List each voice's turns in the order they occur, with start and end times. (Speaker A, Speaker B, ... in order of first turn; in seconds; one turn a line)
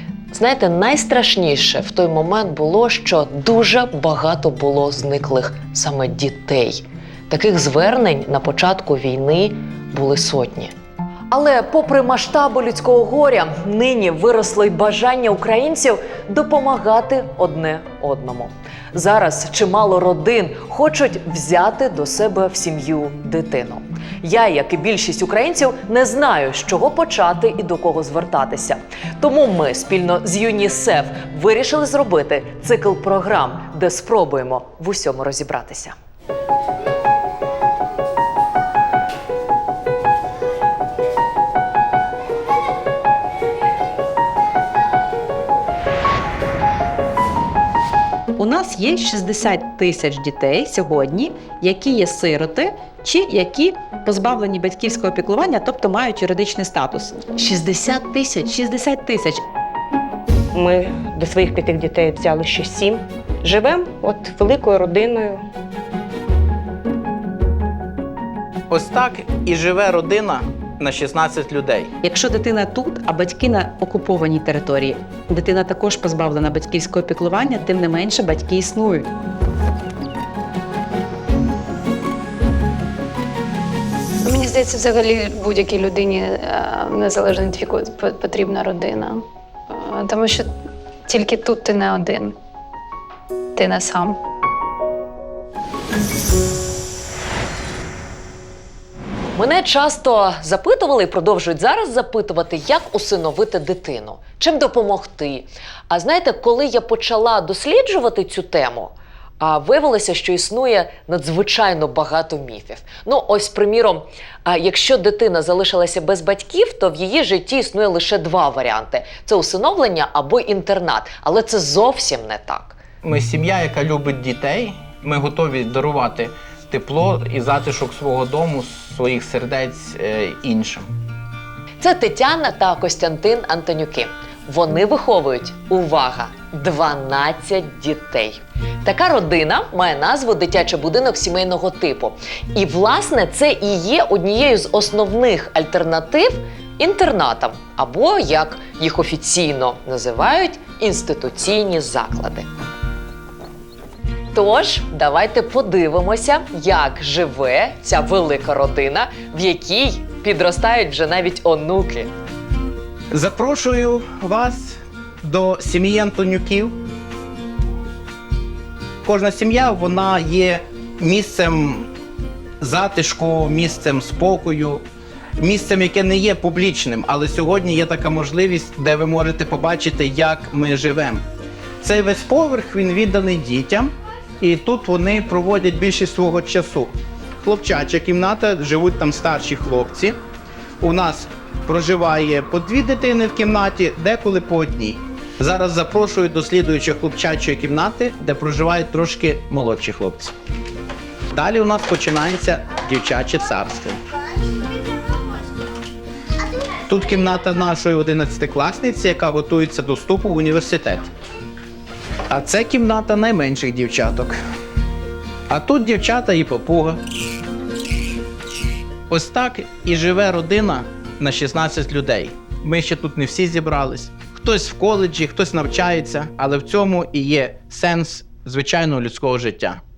Speaker A: 0.3-10.7
Speaker A: 11.3-36.0
Speaker B: 48.4-59.4
Speaker C: 60.5-65.5
Speaker D: 68.7-71.9
Speaker B: 72.0-79.1
Speaker E: 84.2-90.5
Speaker E: 91.1-92.4
Speaker E: 93.5-94.2
Speaker A: 99.4-122.8
Speaker D: 123.0-130.9
Speaker A: 131.8-152.5
Speaker A: 154.3-162.1
Speaker D: 163.1-166.8
Speaker D: 169.1-171.9
Speaker D: 172.6-174.8
Speaker D: 175.4-181.2
Speaker D: 181.8-190.2
Speaker D: 190.8-200.3
Speaker D: 201.3-204.0
Speaker D: 206.9-211.1
Speaker D: 212.3-214.3
Speaker D: 215.5-217.0
Speaker D: 219.1-229.8